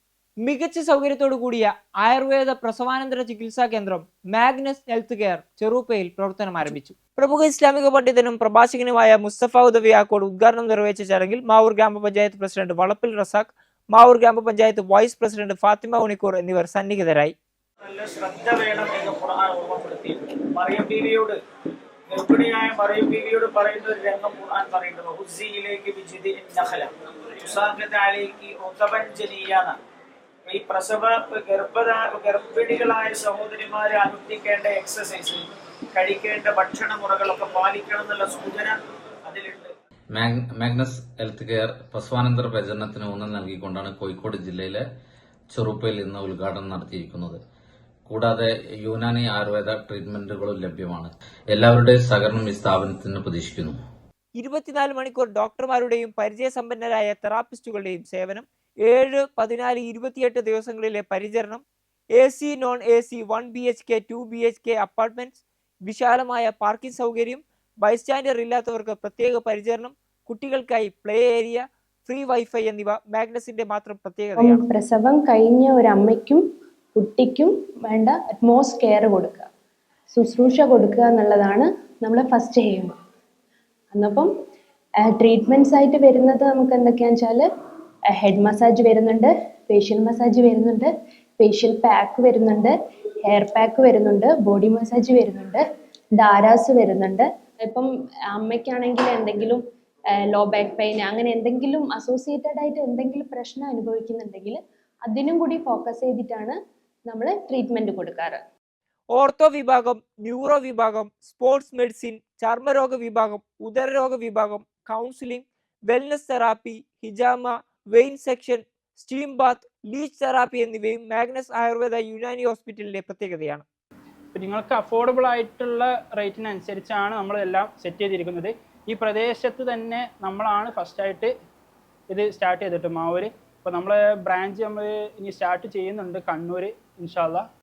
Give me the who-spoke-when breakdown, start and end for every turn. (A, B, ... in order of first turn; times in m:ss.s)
0:00.4-0:17.4 A
0:17.8-0:21.4 B
0:22.1-0:29.8 B
0:30.5-0:35.4 B
0:36.0-0:39.7 B
0:40.1-0:44.8 C
0:45.5-0:47.4 C
0:48.1-0:53.8 C
0:54.4-1:01.6 A
1:02.2-1:14.6 A
1:14.4-1:16.4 D
1:17.0-1:19.5 D
1:20.1-1:23.0 D
1:23.9-1:24.3 D
1:25.0-1:27.5 D
1:28.1-1:32.7 D
1:33.3-1:35.6 D
1:36.2-1:39.6 D
1:40.3-1:46.6 D
1:47.1-1:48.4 D
1:49.1-2:03.7 A
2:04.4-2:11.3 E
2:12.1-2:17.4 E